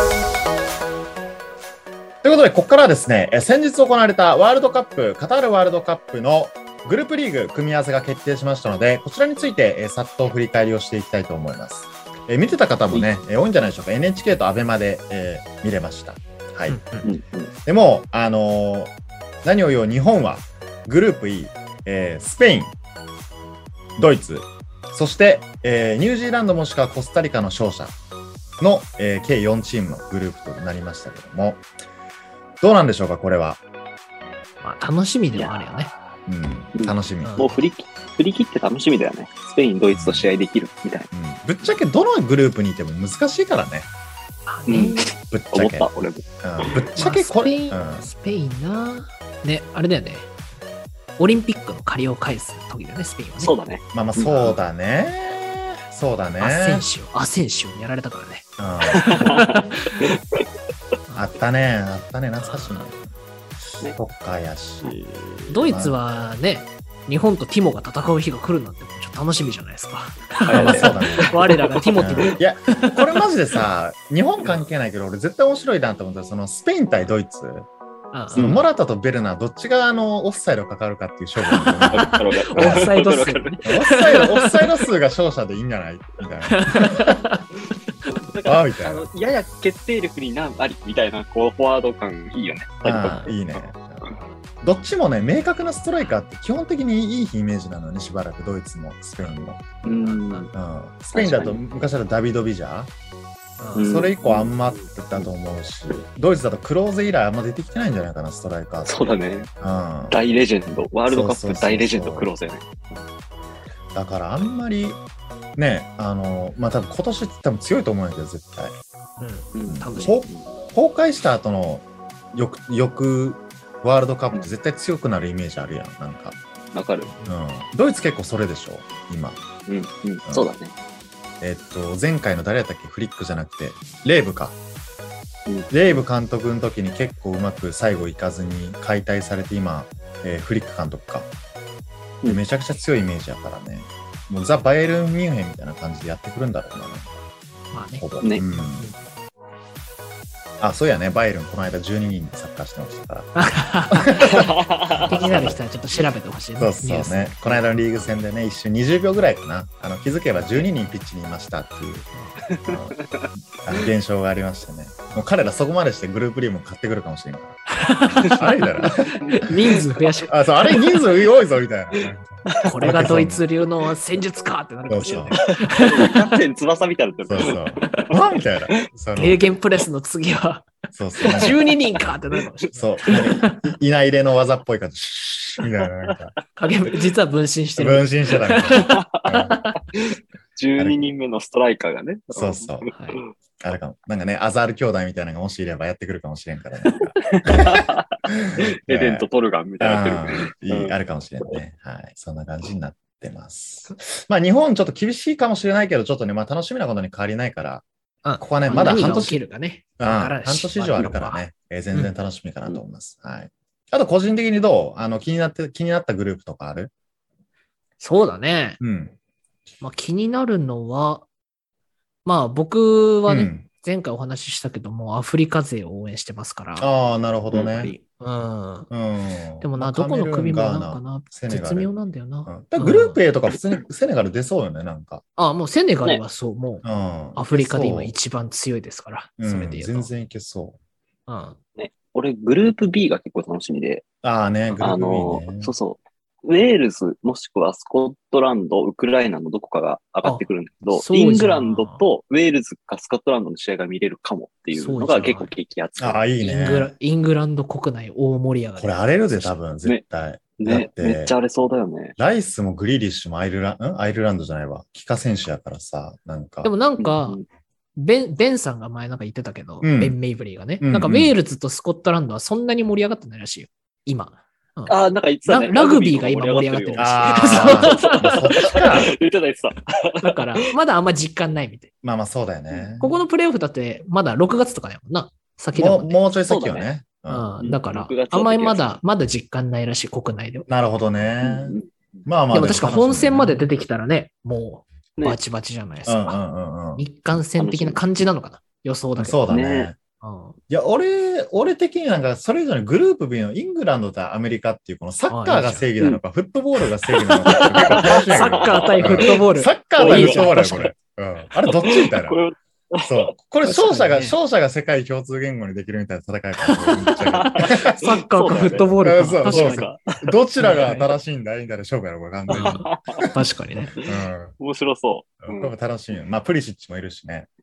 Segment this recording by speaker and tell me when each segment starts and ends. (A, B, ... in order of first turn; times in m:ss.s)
0:02.2-0:16.8 A
0:16.7-0:17.1 B
0:17.0-0:17.5 C
0:17.6-0:18.9 A
0:19.4-0:22.7 A
0:24.0-0:27.9 A
0:28.6-0:31.6 A
0:32.6-0:33.6 A
0:34.6-0:35.9 B
0:35.3-0:35.9 C
0:36.2-0:37.4 A
0:36.7-0:41.1 C
0:37.2-0:37.6 B
0:39.9-0:40.3 A
0:41.1-0:43.9 A
0:44.5-0:45.1 B
0:44.7-0:46.9 C
0:45.3-0:45.9 A
0:46.4-0:48.1 A
0:46.9-0:50.3 B
0:51.2-0:53.5 B
0:53.4-0:54.6 C
0:53.9-0:56.8 A
0:56.4-1:00.1 B
0:58.6-0:59.3 A
0:59.0-1:00.4 C
1:01.1-1:03.0 A
1:02.4-1:02.9 B
1:03.9-1:05.9 A
1:05.5-1:13.0 B
1:10.4-1:11.9 C
1:10.5-1:11.4 A
1:12.0-1:17.7 A
1:18.1-1:18.6 B
1:18.3-1:22.9 A
1:18.3-1:18.6 C
1:21.5-1:24.7 B
1:21.9-1:23.6 C
1:23.6-1:27.2 A
1:26.5-1:27.5 B
1:28.1-1:34.1 C
1:28.4-1:29.1 A
1:32.8-1:34.1 A
1:33.0-1:33.3 B
1:34.6-1:39.8 A
1:39.8-1:40.5 C
1:39.9-1:40.5 B
1:40.5-1:42.9 A
1:41.1-1:41.6 C
1:43.6-1:44.0 B
1:43.7-1:45.3 C
1:43.8-1:49.1 A
1:48.8-1:49.5 C
1:49.6-1:50.2 A
1:50.1-1:53.0 C
1:51.1-1:52.3 A
1:53.9-1:55.0 A
1:55.6-1:58.7 A
1:59.2-2:00.2 B
1:59.5-2:00.4 C
1:59.7-2:06.4 A
2:06.7-2:07.1 C
2:07.2-2:09.4 A
2:09.7-2:10.7 C
2:11.4-2:14.6 A
2:15.5-2:15.8 C
2:15.7-2:21.3 A
2:22.2-2:27.1 A
2:27.7-2:29.0 B
2:28.0-2:28.9 A
2:30.6-2:33.3 A
2:33.4-2:34.5 B
2:33.9-2:35.6 A
2:34.3-2:35.2 C
2:35.0-2:38.1 B
2:36.6-2:42.1 A
2:42.1-2:42.4 B
2:42.5-2:43.3 C
2:42.6-2:43.0 A
2:43.5-2:47.6 A
2:47.7-2:51.0 B
2:48.2-2:49.3 A
2:49.1-2:49.8 C
2:50.3-2:53.4 A
2:52.6-2:56.3 B
2:54.9-2:55.4 A
2:55.0-2:58.1 C
2:57.3-2:59.5 A
2:59.1-3:03.6 B
3:00.9-3:01.6 A
3:01.2-3:01.6 C
3:02.7-3:06.3 A
3:06.6-3:09.7 B
3:07.8-3:09.6 A
3:08.8-3:09.4 C
3:09.9-3:13.3 C
3:12.3-3:12.9 A
3:12.9-3:13.2 B
3:13.6-3:19.2 A
3:17.2-3:20.9 C
3:19.8-3:27.8 A
3:28.2-3:31.4 B
3:28.4-3:29.4 A
3:28.7-3:29.0 C
3:30.0-3:36.9 A
3:38.0-3:38.8 B
3:38.8-3:39.1 A
3:39.8-3:41.2 B
3:42.2-3:46.9 B
3:43.3-3:43.6 A
3:46.8-3:47.9 A
3:47.5-3:47.9 C
3:47.8-3:48.9 B
3:48.9-3:51.9 A
3:49.6-3:53.2 B
3:52.5-3:55.2 A
3:55.4-3:56.8 B
3:56.8-3:58.1 A
3:57.4-4:00.1 B
3:59.4-4:00.8 A
4:01.3-4:01.6 B
4:01.8-4:04.0 C
4:04.2-4:05.7 A
4:04.8-4:16.2 C
4:10.2-4:12.0 B
4:14.7-4:15.5 B
4:16.0-4:16.9 A
4:16.4-4:19.5 B
4:18.8-4:21.3 A
4:20.6-4:22.1 C
4:22.2-4:26.7 A
4:26.6-4:27.4 B
4:27.0-4:27.4 C
4:28.0-4:38.8 B
4:29.8-4:30.2 A
4:30.8-4:31.3 A
4:34.9-4:40.7 C
4:37.0-4:39.1 A
4:40.2-4:41.9 B
4:42.0-4:43.1 A
4:43.0-4:46.2 B
4:45.7-4:47.5 A
4:46.5-4:46.9 C
4:47.3-4:50.7 B
4:47.6-4:48.9 C
4:50.7-4:53.6 A
4:51.4-4:52.2 C
4:52.5-4:56.4 B
4:56.0-4:57.0 A
4:57.0-4:59.4 B
4:57.6-4:58.0 C
4:59.2-5:00.0 A
4:59.5-4:59.9 C
5:00.2-5:00.6 B
5:00.7-5:12.4 A
5:05.3-5:05.9 B
5:07.1-5:09.4 C
5:08.0-5:10.9 B
5:10.0-5:10.6 C
5:11.6-5:13.3 C
5:13.0-5:18.0 A
5:13.6-5:14.4 B
5:17.1-5:20.4 C
5:17.4-5:19.9 B
5:19.0-5:23.3 A
5:20.6-5:21.1 B
5:22.5-5:24.0 B
5:22.5-5:23.2 C
5:24.0-5:25.7 C
5:24.0-5:24.5 A
5:25.4-5:27.5 A